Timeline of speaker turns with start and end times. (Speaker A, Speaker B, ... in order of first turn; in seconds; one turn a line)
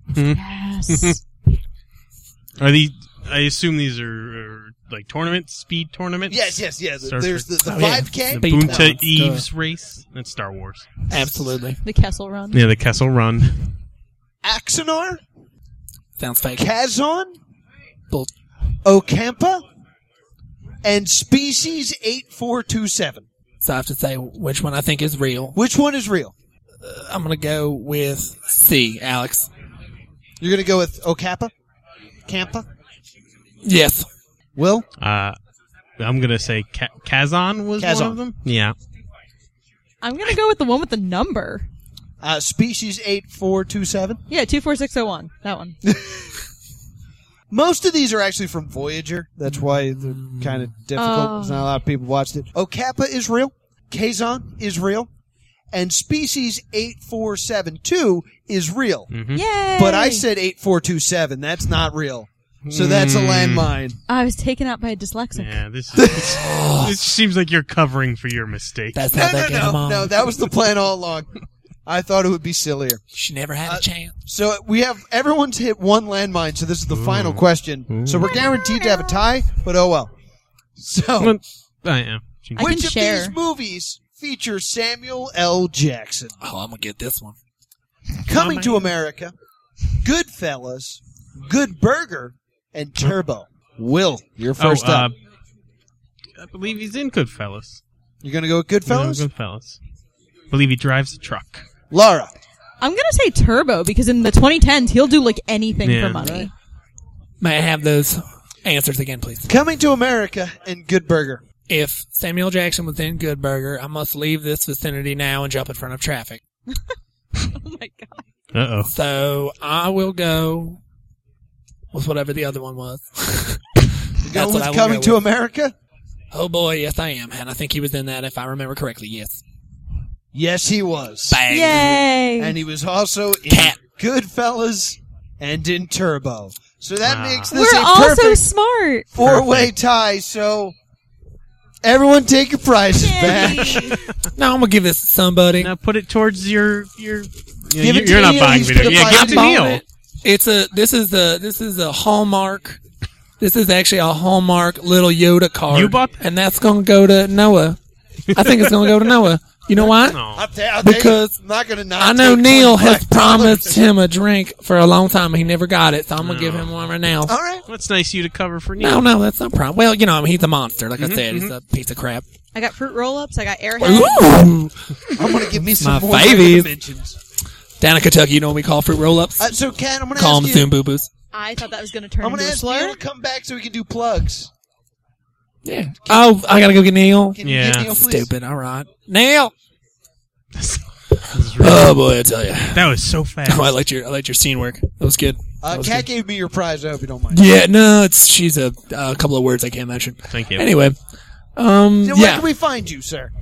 Speaker A: 0.1-1.2
Speaker B: 0.3-1.2
Speaker A: 2.6-7.5
Speaker C: 6.3-8.9
Speaker D: 7.6-9.5
Speaker A: 8.3-10.9
Speaker C: 11.1-11.6
Speaker D: 11.1-11.8
Speaker B: 11.8-12.7
Speaker A: 12.5-13.7
Speaker C: 14.4-15.2
Speaker D: 16.2-16.7
Speaker C: 16.6-17.4
Speaker C: 18.8-19.6
Speaker C: 20.8-23.3
Speaker D: 23.6-25.6
Speaker C: 25.6-26.3
Speaker D: 26.8-29.5
Speaker C: 30.4-31.5
Speaker C: 32.3-32.7
Speaker D: 33.6-34.1
Speaker C: 34.6-34.9
Speaker A: 35.0-35.4
Speaker A: 36.0-38.8
Speaker C: 37.8-38.2
Speaker B: 40.0-41.7
Speaker C: 42.2-44.2
Speaker B: 44.3-45.8
Speaker C: 45.9-46.4
Speaker C: 47.5-55.1
Speaker D: 49.7-50.7
Speaker B: 51.0-51.7
Speaker C: 55.7-59.1
Speaker A: 59.1-59.4
Speaker B: 59.3-60.3
Speaker C: 59.8-64.0
Speaker A: 62.6-63.7
Speaker B: 64.1-65.6
Speaker A: 65.3-69.0
Speaker D: 66.0-67.0
Speaker D: 68.9-70.3
Speaker C: 69.1-71.3
Speaker C: 71.9-73.0
Speaker D: 73.1-74.2
Speaker C: 73.7-80.1
Speaker A: 76.9-78.3
Speaker B: 78.3-79.2
Speaker C: 80.8-81.4
Speaker A: 81.2-82.7
Speaker B: 82.6-83.4
Speaker C: 82.6-86.3
Speaker D: 86.4-87.3
Speaker C: 88.2-89.3
Speaker D: 88.3-88.8
Speaker C: 90.0-95.1
Speaker A: 94.6-95.1
Speaker A: 96.4-97.8
Speaker C: 98.2-99.3
Speaker A: 98.9-99.8
Speaker A: 100.5-101.7
Speaker C: 101.9-102.3
Speaker B: 102.8-106.5
Speaker A: 105.8-106.3
Speaker C: 106.2-106.5
Speaker D: 107.4-109.5
Speaker C: 109.5-111.4
Speaker D: 111.7-116.4
Speaker B: 116.7-118.2
Speaker A: 118.5-118.9
Speaker D: 118.9-120.8
Speaker D: 121.9-125.2
Speaker C: 124.2-125.8
Speaker D: 126.3-129.4
Speaker C: 130.3-138.4
Speaker D: 131.3-132.1
Speaker B: 131.5-132.6
Speaker D: 133.5-133.8
Speaker A: 137.0-137.6
Speaker B: 137.5-139.2
Speaker C: 139.2-140.8
Speaker A: 139.2-139.7
Speaker C: 141.8-144.0
Speaker B: 142.9-144.1
Speaker A: 143.6-144.1
Speaker D: 144.3-145.8
Speaker A: 145.6-149.8
Speaker C: 147.8-149.7
Speaker D: 148.5-152.8
Speaker D: 153.4-157.8
Speaker A: 155.7-156.2
Speaker A: 158.3-159.0
Speaker D: 158.3-160.2
Speaker A: 159.8-160.5
Speaker C: 160.3-163.8
Speaker D: 160.8-161.3
Speaker D: 162.0-167.3
Speaker A: 166.2-166.9
Speaker C: 167.3-167.7
Speaker A: 167.7-169.1
Speaker D: 168.8-172.3
Speaker A: 171.0-171.5
Speaker B: 172.5-174.4
Speaker D: 173.8-175.0
Speaker C: 175.1-177.2
Speaker D: 175.7-176.7
Speaker D: 177.8-179.6
Speaker C: 179.4-180.7
Speaker D: 180.2-181.1
Speaker B: 181.3-183.0
Speaker C: 182.2-184.5
Speaker D: 185.7-189.5
Speaker C: 187.3-188.3
Speaker A: 187.4-187.9
Speaker A: 190.6-192.0
Speaker D: 191.6-196.1
Speaker A: 192.7-193.7
Speaker C: 195.6-197.5
Speaker D: 197.3-201.0
Speaker A: 200.3-200.7
Speaker D: 201.6-202.5
Speaker C: 202.0-203.3